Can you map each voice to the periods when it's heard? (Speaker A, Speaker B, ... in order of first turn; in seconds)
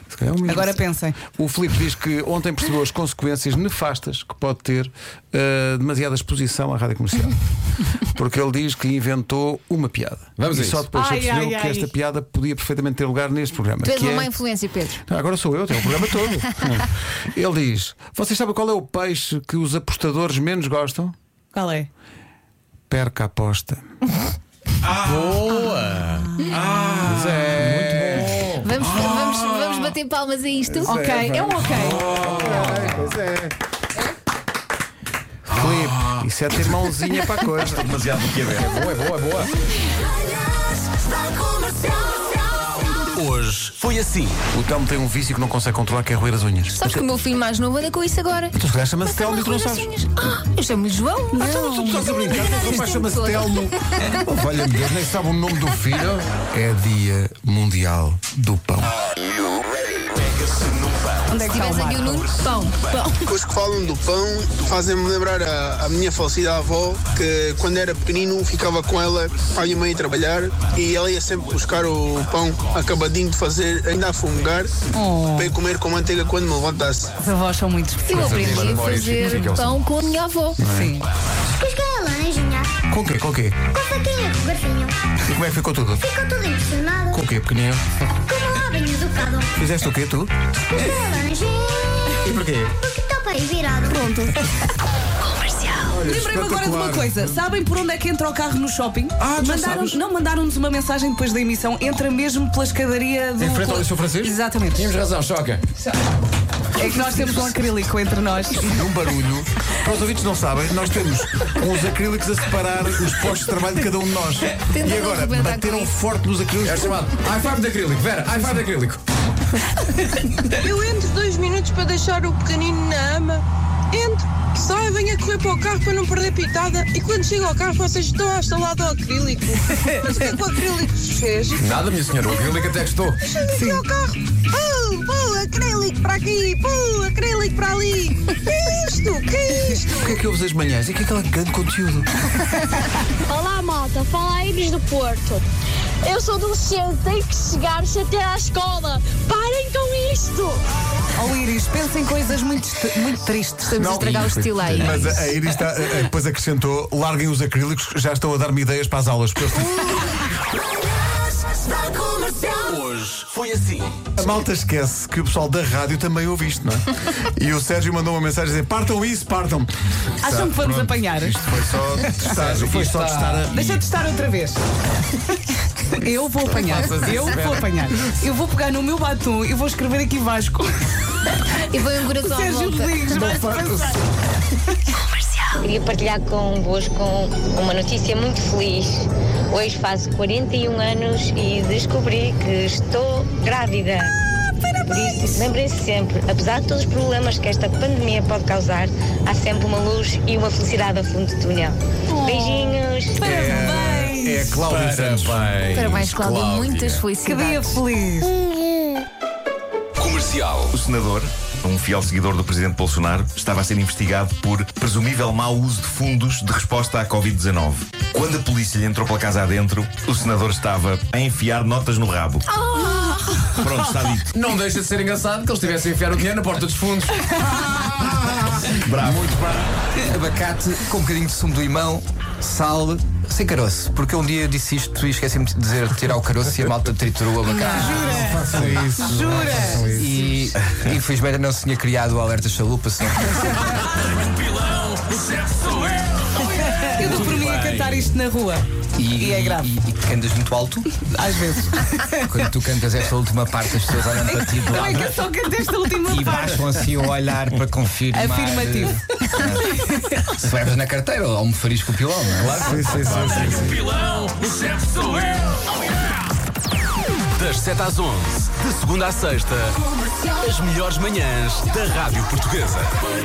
Speaker A: 0.1-7.4, 7.9-14.3, 15.1-21.1, 22.9-23.8, 25.0-25.6, 27.0-28.6, 30.8-33.4, 35.5-37.9, 44.5-47.0, 48.5-50.0, 51.4-58.9, 78.2-79.5, 80.6-81.0, 82.9-83.6, 85.2-86.1, 87.1-87.9, 89.6-90.3, 92.3-92.7, 93.9-94.3, 95.9-97.3, 99.2-100.0, 103.4-104.3, 108.6-117.1, 139.9-142.2, 153.8-160.0, 164.2-169.7, 170.2-173.8, 183.2-183.8, 203.2-205.6, 229.1-229.7, 237.9-240.2, 262.4-263.9
Speaker B: 0.4-1.2, 10.9-11.9, 21.5-21.9, 26.5-27.0, 30.8-32.2, 51.5-52.1, 61.3-62.3, 75.0-75.5, 77.2-78.2, 80.7-81.0, 95.6-105.0, 106.8-108.8, 133.6-133.8, 151.2-154.1, 170.2-172.3, 173.5-174.6, 175.8-180.9, 182.2-184.0, 202.1-204.6, 207.2-208.3, 222.7-223.6, 227.3-227.8, 237.5-240.0, 246.2-249.7, 251.1-252.5, 254.1-256.9, 258.1-260.4
Speaker C: 10.4-10.8, 25.0-26.2, 38.6-39.5, 43.2-44.3, 78.9-79.6, 104.8-105.6, 116.7-119.0, 131.6-133.2, 162.5-163.9, 205.1-205.6, 210.0-210.7, 224.3-227.1, 271.2-272.9
Speaker D: 13.8-15.0, 27.6-31.1, 46.7-48.5, 49.0-54.2, 61.4-63.1, 78.0-80.6, 114.7-116.0, 153.6-155.3, 181.7-183.0, 205.6-207.8, 222.7-223.5
Speaker E: 37.8-38.7, 210.7-222.4, 223.6-224.3, 228.9-229.3
Speaker F: 63.3-74.8, 75.4-77.1
Speaker G: 81.5-82.8, 83.7-85.0, 86.0-87.2, 88.1-89.5, 90.7-94.1
Speaker H: 120.6-140.1
Speaker I: 143.3-145.4, 146.0-150.6
Speaker J: 172.6-173.1, 229.9-238.9, 239.8-243.6, 249.0-250.9, 252.3-255.1, 256.1-259.7, 260.3-262.7
Speaker K: 185.6-194.1, 194.9-203.2